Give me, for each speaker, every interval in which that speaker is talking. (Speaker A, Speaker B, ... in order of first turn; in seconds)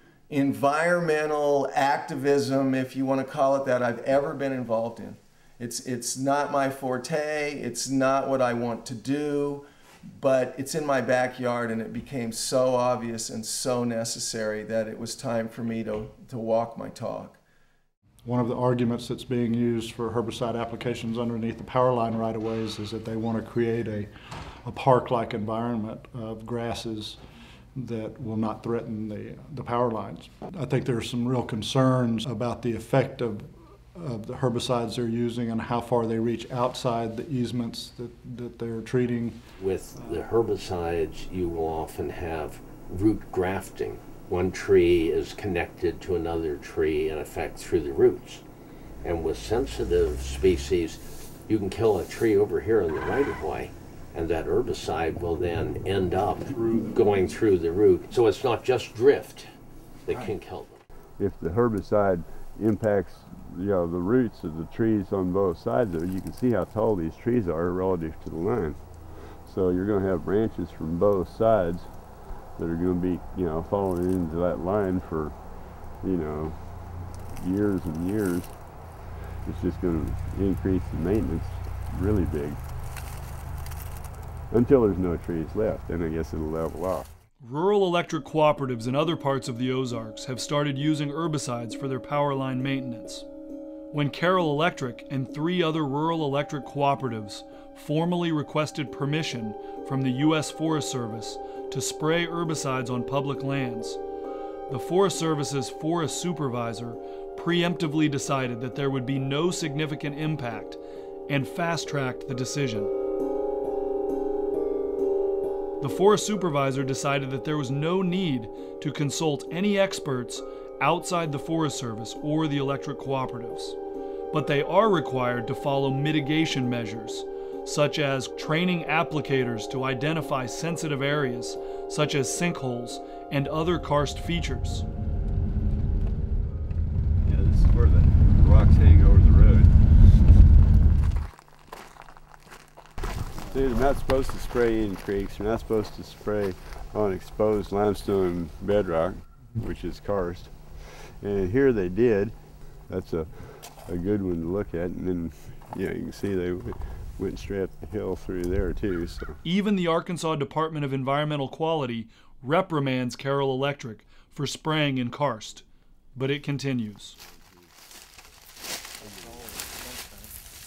Speaker A: 0.3-17.4
Speaker B: 18.2-24.1, 24.6-27.2, 27.8-39.4
Speaker C: 39.6-48.4, 49.0-59.5, 60.1-60.8
Speaker D: 61.2-82.7, 84.5-87.1, 137.2-139.7, 143.4-159.4
Speaker E: 87.4-93.2, 93.9-104.0, 104.7-112.9, 115.8-123.8, 124.3-134.9, 159.4-167.2